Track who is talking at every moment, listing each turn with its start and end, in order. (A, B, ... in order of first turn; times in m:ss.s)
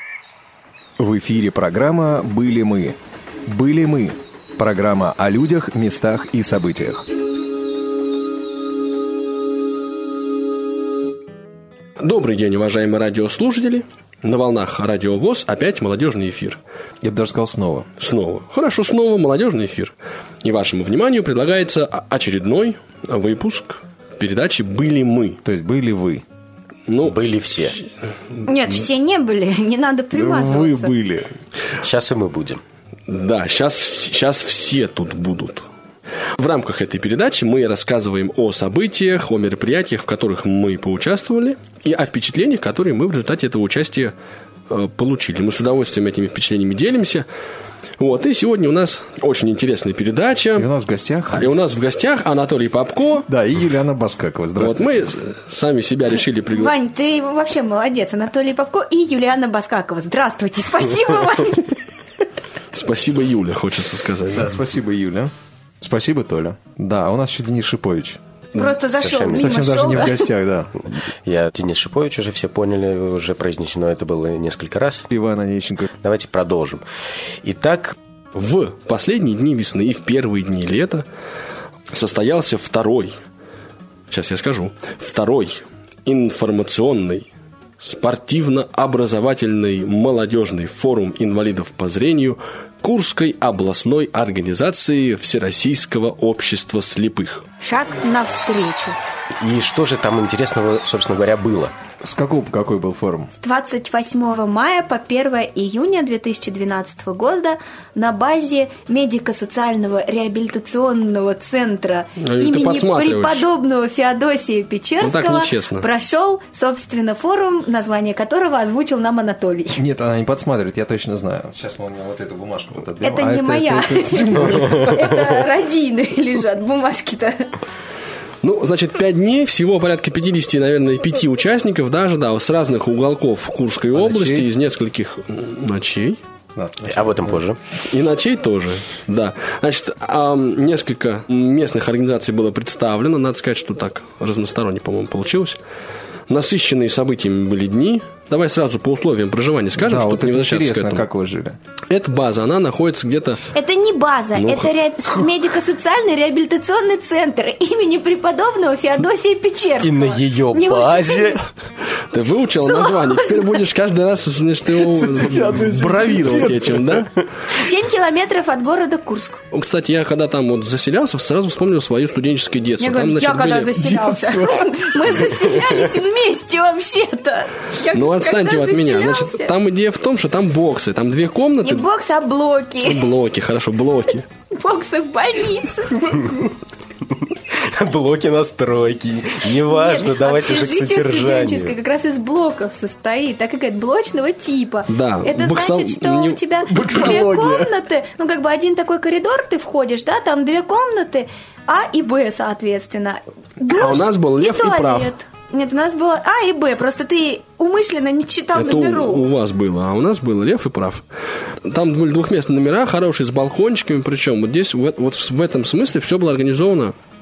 0:01.0-0:07.0 A
0:12.0-0:16.6 B
0:17.0-0:17.9 A
0:18.0-0:25.4 B
0:25.4-0:26.2 A
0:26.9-0:27.2 B
0:27.0-0:27.7 C
0:28.4-0:30.9 D
0:30.1-0:31.3 A
0:31.8-0:32.6 C
0:33.1-0:35.7 B
0:36.4-0:44.1 B
0:44.7-0:47.3 B
0:48.0-0:50.7 B
0:50.6-0:51.5 A
0:51.3-0:53.2 B
0:53.3-0:55.1 A
0:54.6-0:56.7 B
0:56.5-1:01.8 D
1:02.7-1:04.5 B
1:04.3-1:08.2 A
1:08.6-1:10.3 D
1:09.0-1:09.4 C
1:09.3-1:11.0 A
1:11.3-1:15.0 C
1:15.1-1:15.9 A
1:16.0-1:16.8 C
1:17.4-1:18.0 C
1:18.3-1:21.0 B
1:21.9-1:23.2 B
1:24.1-1:27.3 B
1:27.8-1:37.4 B
1:37.6-1:39.0 D
1:39.4-1:41.7 C
1:42.0-1:43.3 A
1:43.3-1:59.8 D
1:52.2-1:53.4 B
1:55.0-1:55.8 B
1:59.8-2:05.2 A
2:03.0-2:07.5 D
2:08.4-2:16.2 B
2:13.9-2:14.4 A
2:16.5-2:17.4 A
2:16.9-2:17.6 C
2:17.9-2:25.6 B
2:26.3-2:31.0 B
2:29.7-2:31.6 A
2:31.9-2:33.4 B
2:33.5-2:41.4 D
2:34.4-2:35.2 B
2:39.8-2:41.4 C
2:42.1-2:47.1 B
2:42.6-2:43.6 D
2:44.8-2:47.1 C
2:47.5-2:49.4 D
2:49.5-2:53.9 B
2:52.8-2:59.5 D
2:57.9-3:01.8 B
3:01.6-3:03.1 D
3:02.8-3:04.3 B
3:04.5-3:06.3 D
3:07.7-3:11.7 C
3:09.6-3:29.3 D
3:14.9-3:17.4 B
3:16.8-3:17.6 C
3:23.7-3:25.1 B
3:28.5-3:31.0 B
3:31.6-3:36.9 B